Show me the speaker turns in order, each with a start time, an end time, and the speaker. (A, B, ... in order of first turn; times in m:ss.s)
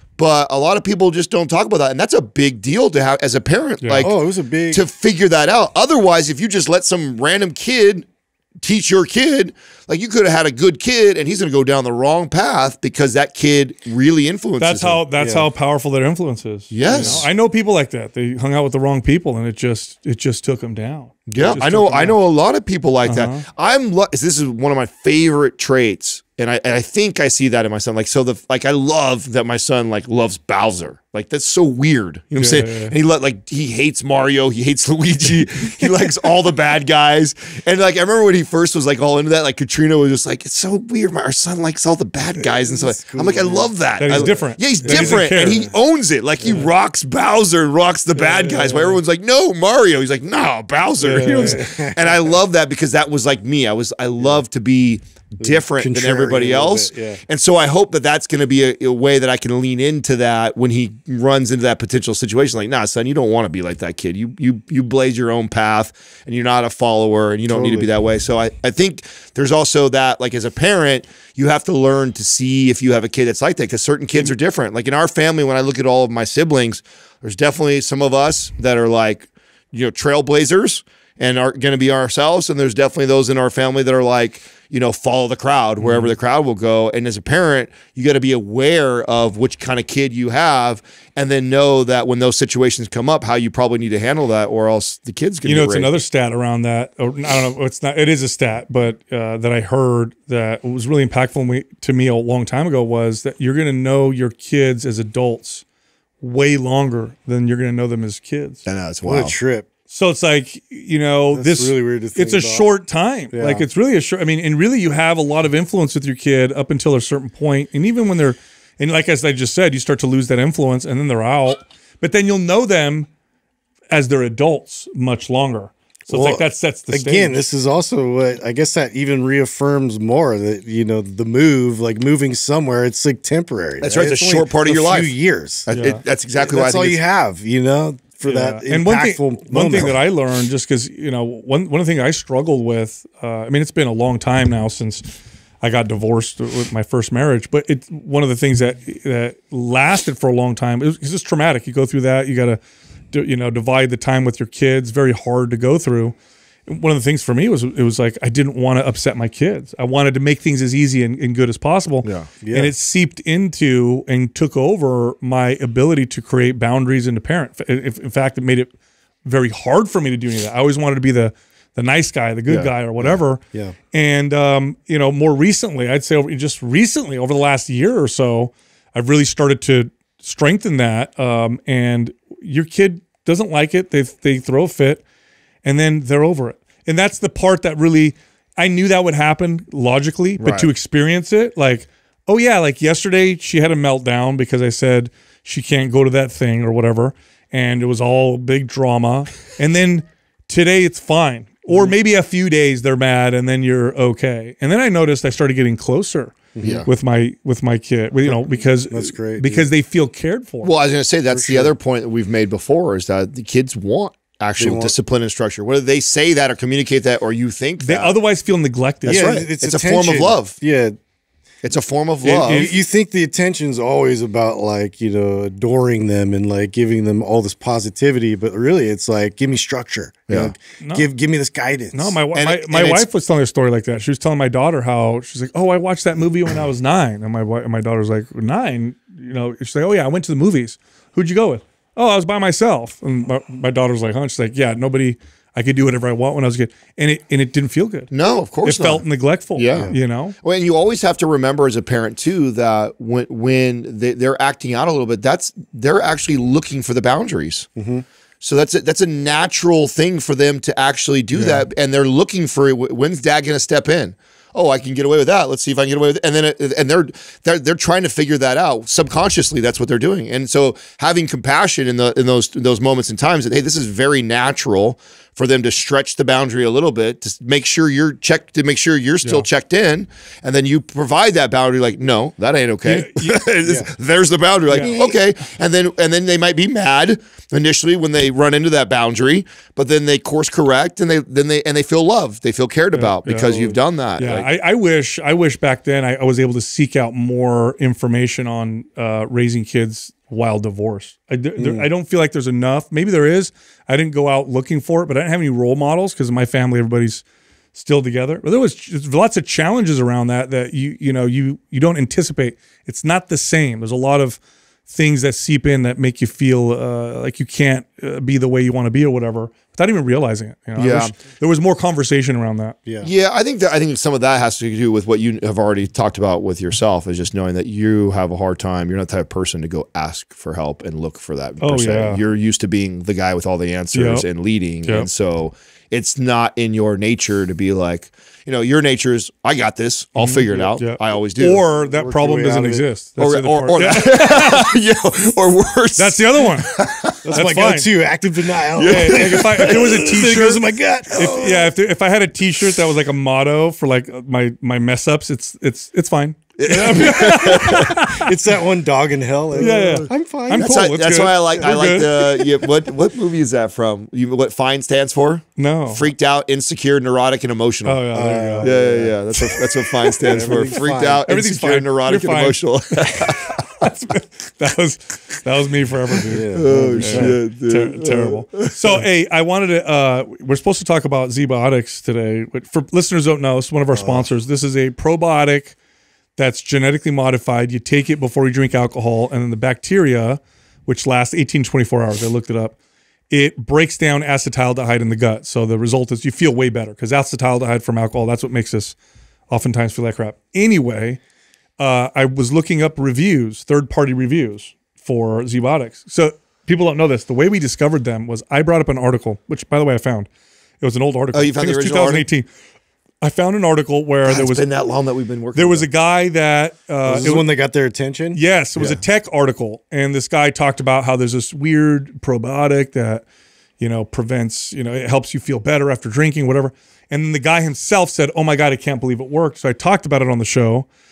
0:00.2-0:04.1 A
0:03.8-0:04.1 B
0:04.0-0:04.8 C
0:04.7-0:08.0 A
0:08.6-0:15.0 A
0:14.6-0:22.2 B
0:15.2-0:15.5 C
0:16.7-0:17.3 A
0:16.9-0:17.2 C
0:21.3-1:36.0 A
0:23.0-0:23.4 B
0:32.4-0:32.9 B
0:42.4-0:45.2 C
0:44.0-0:45.7 B
0:48.1-0:49.0 B
0:51.0-0:51.6 B
0:51.3-0:52.2 C
0:55.4-0:57.2 C
1:07.5-1:07.9 C
1:25.8-1:26.1 B
1:35.4-1:45.6 B
1:46.2-1:48.6 B
1:48.6-1:49.4 A
1:49.0-1:49.7 C
1:49.9-2:03.1 B
1:51.3-1:52.7 C
1:53.3-1:53.6 C
2:03.9-2:07.4 B
2:06.1-2:15.7 C
2:13.8-2:15.1 A
2:15.6-2:17.0 A
2:15.7-2:16.0 B
2:16.4-2:20.0 C
2:18.3-2:32.6 B
2:33.1-2:36.1 B
2:36.7-2:48.7 B
2:42.0-2:42.3 A
2:42.4-2:42.7 C
2:49.2-2:53.4 B
2:52.5-2:53.2 A
2:53.9-3:05.0 B
3:05.6-3:30.7 B
3:10.4-3:10.7 A
3:26.5-3:26.9 C
3:26.6-3:26.9 A
3:28.2-3:29.7 C
3:30.6-3:38.2 A
3:31.3-3:31.7 C
3:34.6-3:34.9 C
3:37.8-3:39.4 B
3:39.0-3:40.6 A
3:39.0-3:41.0 C
3:41.6-3:42.7 A
3:42.2-3:42.7 B
3:42.4-3:52.2 C
3:50.8-3:51.1 B
3:51.9-4:08.1 B
3:52.3-3:53.0 A
4:08.1-4:09.0 A
4:08.6-4:10.4 B
4:09.6-4:17.7 A
4:17.8-4:18.0 C
4:18.4-4:54.5 A
4:21.4-4:21.6 B
4:42.8-4:43.4 B
4:43.6-4:43.9 C
4:44.7-4:45.0 B
4:44.8-4:45.1 C
4:52.9-5:22.8 B
5:01.6-5:01.9 C
5:20.8-5:21.1 A
5:23.0-5:41.6 A
5:31.6-5:32.2 B
5:33.9-5:34.2 B
5:40.2-5:44.7 B
5:41.8-5:42.8 C
5:43.2-5:47.2 A
5:46.0-5:46.7 B
5:47.2-5:51.7 C
5:47.3-5:47.9 B
5:48.7-5:49.9 A
5:48.8-5:58.3 B
5:56.6-5:58.0 A
5:57.3-6:00.8 C
5:59.6-6:13.7 A
5:59.6-6:02.3 B
6:05.6-6:06.1 B
6:07.8-6:08.7 B
6:08.1-6:09.2 C
6:10.2-6:11.2 C
6:10.3-6:10.6 B
6:11.3-6:25.7 B
6:16.3-6:17.4 C
6:16.6-6:19.0 A
6:23.9-6:24.3 C
6:26.4-6:32.8 B
6:33.3-6:39.0 B
6:39.5-6:41.2 B
6:41.8-6:50.3 B
6:50.8-6:52.5 B
6:51.3-6:52.2 A
6:53.2-6:54.6 B
6:54.2-6:55.9 A
6:55.5-6:57.5 B
6:57.0-6:59.0 C
6:58.3-7:03.2 B
7:03.8-7:10.8 B